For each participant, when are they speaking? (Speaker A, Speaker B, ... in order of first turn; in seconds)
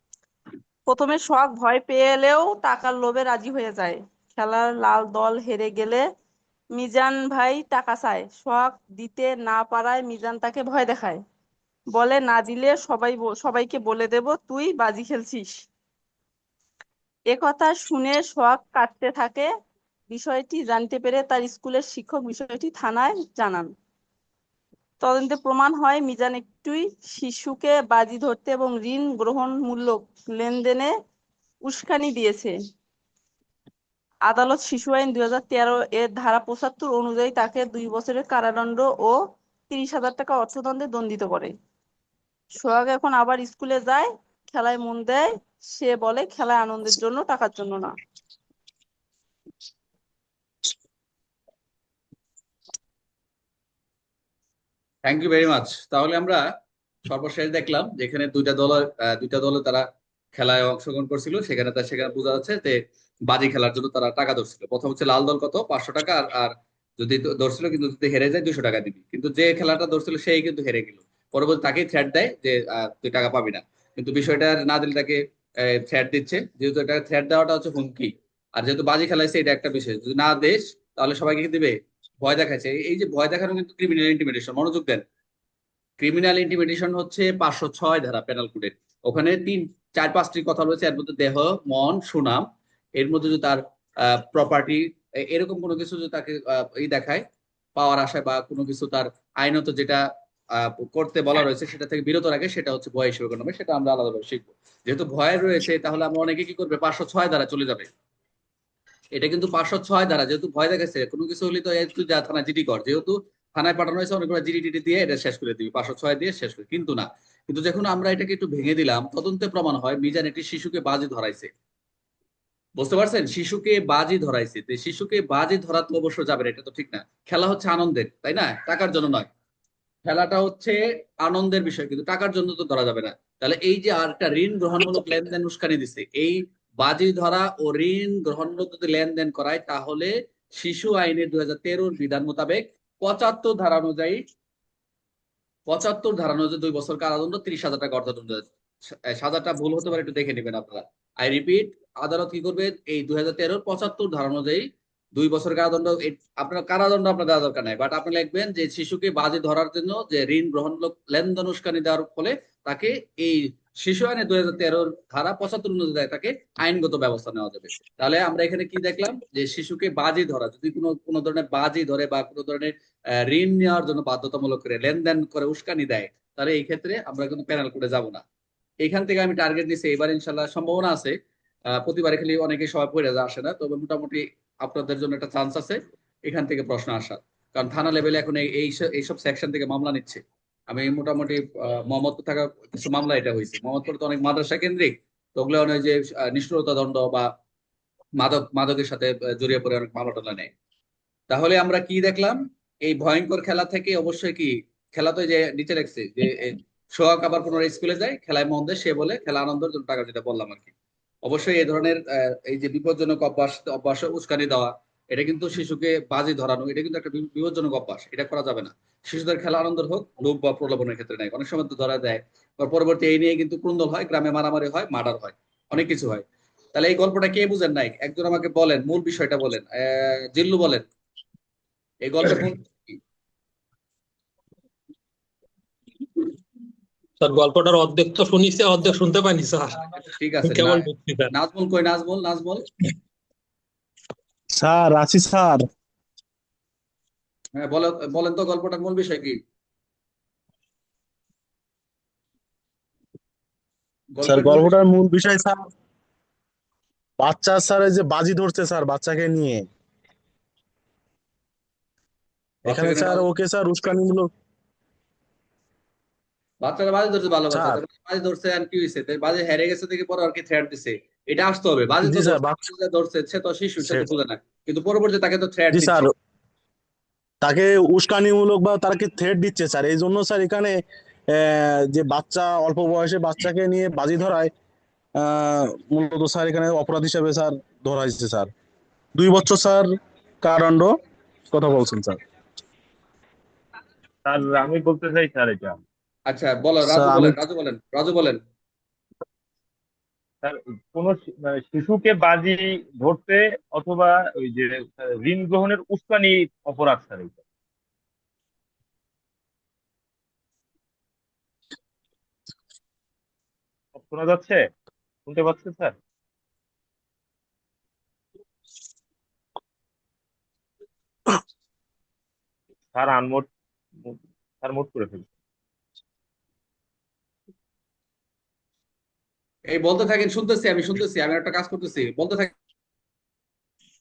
Speaker A: 0.9-6.0, 6.8-11.2, 11.9-15.5, 17.3-19.5, 20.1-23.7, 25.0-30.9, 31.6-32.5, 34.3-39.1, 39.7-41.5, 42.6-47.9
Speaker B: 55.0-56.4, 57.0-59.8, 60.3-85.0, 86.0-92.4, 93.0-97.2, 97.8-100.0, 100.6-107.9, 109.2-121.5, 122.8-129.3, 130.1-144.2, 145.7-178.2, 178.8-181.1, 181.7-197.3, 198.2-200.5, 201.3-210.7, 211.2-230.8, 232.0-233.0, 239.9-242.6, 247.5-249.4, 254.1-254.8, 262.6-263.2, 266.6-276.1, 296.2-298.4, 329.6-332.5
Speaker C: 237.2-239.8, 240.4-241.3
Speaker D: 244.5-245.6, 254.2-255.6, 257.2-259.7, 262.7-264.3, 267.5-267.8, 272.0-272.6, 273.8-274.1, 275.7-276.1, 277.4-280.7, 281.3-284.5, 285.2-288.5, 289.1-289.9, 290.4-290.9, 291.5-292.2, 296.8-297.4
Speaker E: 294.2-295.8, 300.4-307.4, 313.9-314.6, 315.2-315.9, 322.9-323.5, 324.0-325.3